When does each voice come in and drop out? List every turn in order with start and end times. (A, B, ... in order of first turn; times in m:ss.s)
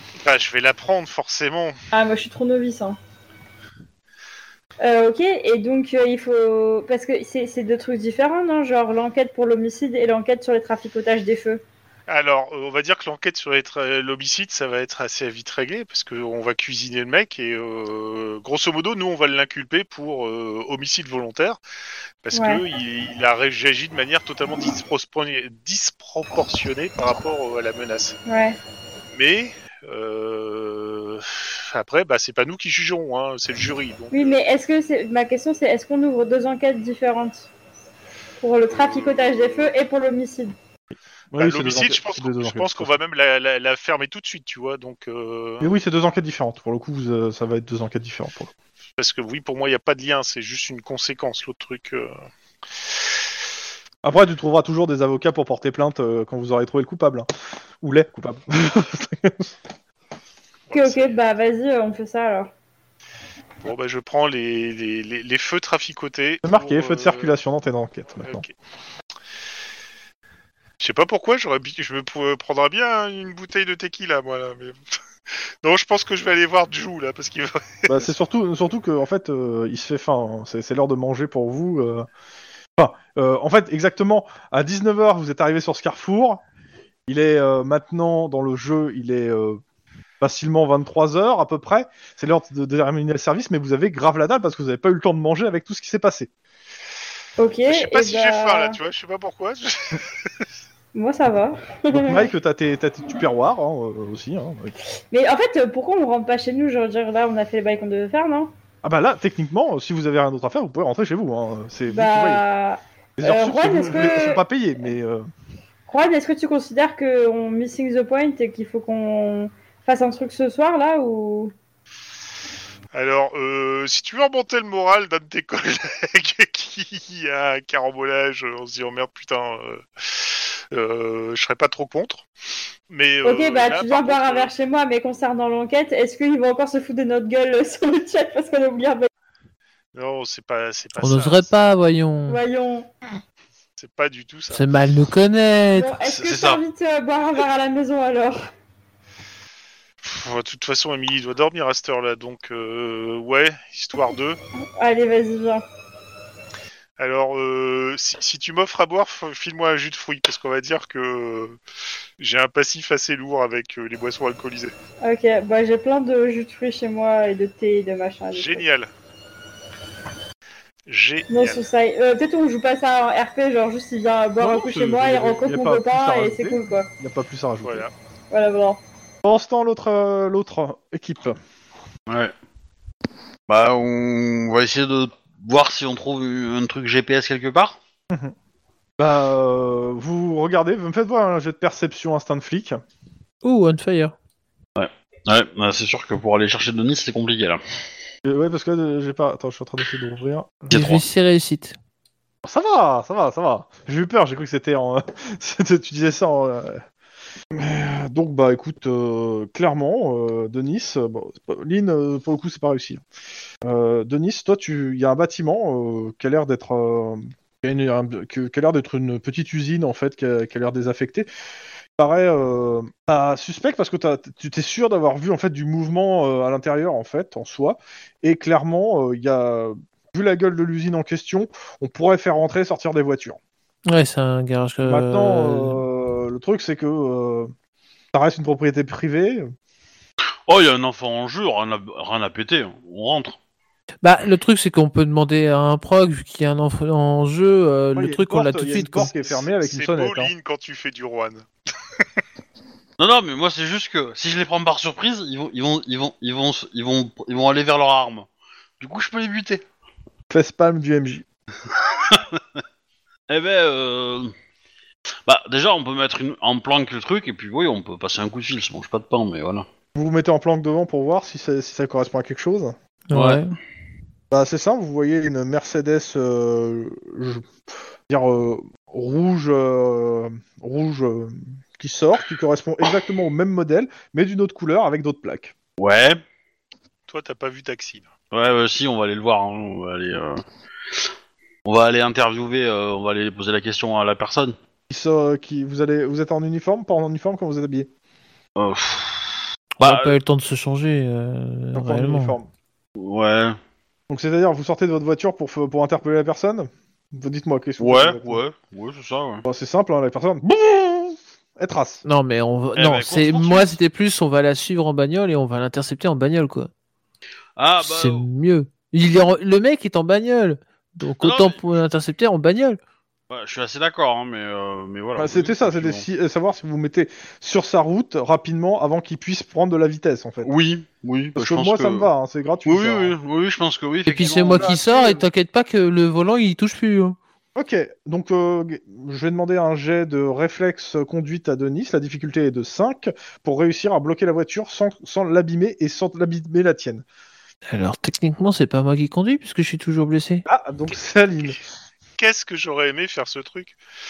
0:00.2-0:01.7 A
0:01.9-0:03.0 B
0:04.8-0:11.6 B
0:12.1-0:21.6 A
0:22.2-0:28.2 A
0:22.3-0:22.6 B
0:28.3-0:28.6 B
0:29.1-0:34.4 A
0:34.1-0:37.5 B
0:38.4-0:40.5 B
0:38.7-0:39.7 A
0:41.3-0:43.0 C
0:41.4-0:45.7 A
0:45.6-0:48.5 C
0:49.0-0:52.1 A
0:54.0-0:57.3 C
0:57.8-0:59.5 C
1:00.7-1:01.1 A
1:00.7-1:02.5 B
1:03.6-1:07.4 A
1:06.4-1:08.4 C
1:08.2-1:08.5 A
1:10.8-1:18.1 A
1:17.9-1:22.1 C
1:22.8-1:26.4 C
1:27.1-1:29.6 C
1:30.2-1:36.3 C
1:37.4-1:38.8 B
1:37.7-1:40.3 A
1:40.9-1:42.3 B
1:41.9-1:44.7 C
1:45.1-1:48.5 B
1:48.8-1:52.4 C
1:51.9-1:54.4 B
1:53.2-1:55.3 C
1:55.9-2:01.5 B
2:02.9-2:12.2 A
2:12.9-2:14.5 A
2:13.2-2:19.1 B
2:19.9-2:21.5 A
2:21.0-2:22.4 D
2:22.3-2:22.9 B
2:23.8-2:24.7 A
2:24.5-2:25.9 D
2:25.7-2:28.5 B
2:26.0-2:26.6 E
2:30.0-2:34.4 A
2:34.8-2:35.6 B
2:37.0-2:41.6 A
2:42.2-2:44.7 A
2:45.0-2:48.6 B
2:48.3-2:48.9 A
2:50.9-2:51.6 A
2:51.3-2:56.9 B
2:54.4-2:57.8 C
2:57.6-2:57.9 A
2:58.3-2:58.8 B
2:59.2-3:01.4 C
3:02.1-3:02.3 E
3:03.5-3:07.8 E
3:08.1-3:08.3 C
3:09.0-3:12.8 C
3:13.4-3:14.1 D
3:14.8-3:17.6 E
3:18.2-3:20.8 C
3:20.7-3:21.0 E
3:20.7-3:21.8 D
3:22.4-3:26.8 C
3:27.5-3:33.0 C
3:33.6-3:41.3 C
3:42.0-3:53.4 C
3:53.9-3:55.8 D
3:54.8-3:57.5 C
3:58.1-3:59.5 C
4:00.5-4:03.4 E
4:04.0-4:09.1 D
4:08.0-4:10.3 C
4:09.2-4:11.4 A
4:13.0-4:18.3 E
4:18.8-4:19.6 E
4:20.3-4:21.2 C
4:21.7-4:22.6 E
4:23.3-4:24.3 E
4:25.2-4:29.6 E
4:29.9-4:32.7 C
4:33.1-4:33.5 D
4:33.1-4:33.4 E
4:34.3-4:37.5 C
4:38.1-4:45.5 C
4:45.8-4:46.2 E
4:47.1-4:48.1 A
4:48.3-4:50.4 E
4:51.6-4:54.6 E
4:54.9-4:57.9 C
4:58.6-5:00.2 E
4:59.8-5:02.4 D
5:01.7-5:02.5 C
5:03.0-5:03.6 E
5:04.1-5:08.4 C
5:07.8-5:09.4 E
5:09.4-5:12.0 C
5:12.0-5:16.7 D
5:12.8-5:13.8 E
5:17.6-5:18.3 E
5:17.8-5:22.8 D
5:21.2-5:21.8 E
5:23.3-5:26.0 E
5:25.2-5:30.5 C
5:30.4-5:32.1 E
5:31.4-5:33.1 C
5:32.6-5:35.1 E
5:34.1-5:37.2 D
5:34.2-5:35.2 C
5:37.5-5:47.0 C
5:47.7-5:50.4 D
5:50.5-5:51.6 C
5:52.2-5:53.8 A